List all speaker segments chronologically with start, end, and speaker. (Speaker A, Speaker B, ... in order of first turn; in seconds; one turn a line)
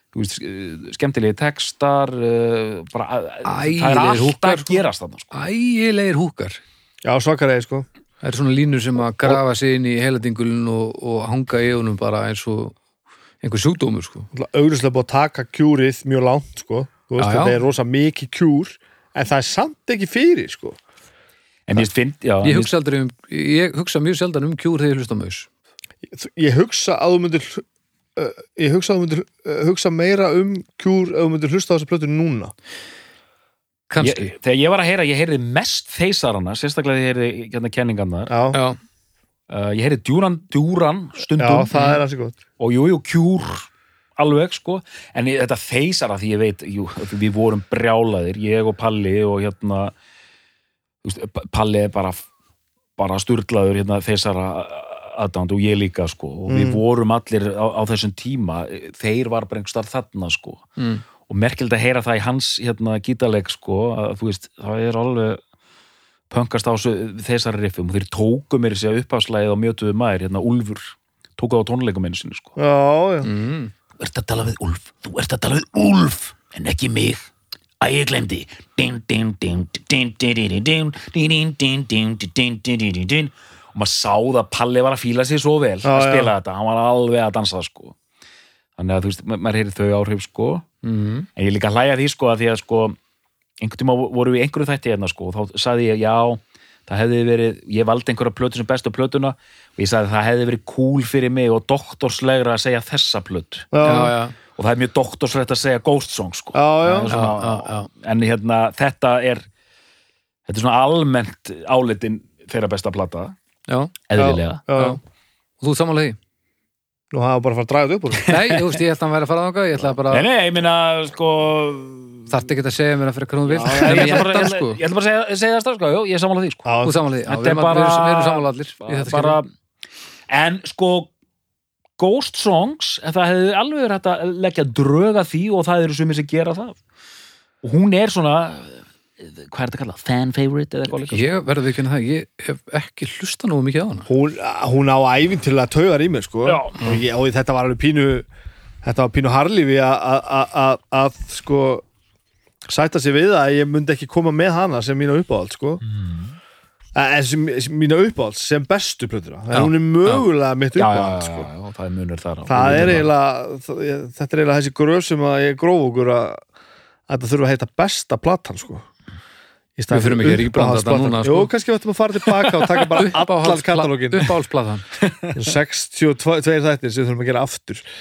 Speaker A: 0.1-5.3
Speaker B: 3.4-6.6
Speaker C: 7.0-7.9
Speaker B: 8.2-12.8
Speaker B: 13.4-14.3
Speaker C: 14.3-20.8
Speaker B: 17.2-17.6
Speaker A: 21.7-22.7
Speaker B: 22.4-25.5
Speaker C: 26.1-27.6
Speaker C: 28.1-32.5
Speaker B: 33.9-34.3
Speaker A: 34.0-38.4
Speaker C: 38.3-38.6
Speaker B: 38.5-38.8
Speaker A: 39.5-41.7
Speaker C: 41.4-42.4
Speaker B: 41.7-42.0
Speaker A: 42.6-49.9
Speaker A: 51.0-52.2
Speaker A: 53.0-60.7
Speaker C: 56.5-56.8
Speaker B: 60.8-61.0
Speaker A: 61.3-65.4
Speaker A: 66.3-72.5
Speaker C: 72.6-73.3
Speaker B: 73.2-73.7
Speaker A: 74.0-77.3
Speaker A: 77.8-88.0
Speaker C: 85.8-86.3
Speaker A: 88.8-90.7
Speaker B: 90.8-91.3
Speaker A: 91.4-93.0
Speaker A: 93.6-103.7
Speaker C: 103.7-104.1
Speaker B: 103.8-104.4
Speaker A: 104.5-109.4
Speaker C: 106.5-107.1
Speaker B: 107.0-107.9
Speaker A: 110.5-113.3
Speaker B: 113.7-113.9
Speaker A: 114.1-114.6
Speaker C: 114.2-115.0
Speaker B: 114.7-115.0
Speaker B: 115.6-116.2
Speaker C: 117.1-118.3
Speaker A: 118.2-118.6
Speaker B: 118.3-120.3
Speaker A: 120.1-122.3
Speaker B: 122.3-124.8
Speaker A: 123.5-126.7
Speaker C: 123.5-124.3
Speaker C: 126.7-127.0
Speaker B: 126.8-129.4
Speaker A: 127.3-129.5
Speaker A: 130.3-131.1
Speaker A: 132.0-136.8
Speaker A: 137.6-141.3
Speaker B: 141.1-144.1
Speaker C: 144.1-148.3
Speaker A: 146.4-146.9
Speaker C: 148.8-151.8
Speaker C: 152.7-155.8
Speaker A: 155.8-156.4
Speaker C: 156.9-161.5
Speaker B: 159.5-160.2
Speaker A: 160.7-163.1
Speaker C: 162.5-166.4
Speaker C: 167.1-168.9
Speaker C: 169.8-174.3
Speaker B: 169.9-171.5
Speaker B: 172.8-174.9
Speaker A: 175.0-175.3
Speaker C: 175.3-177.8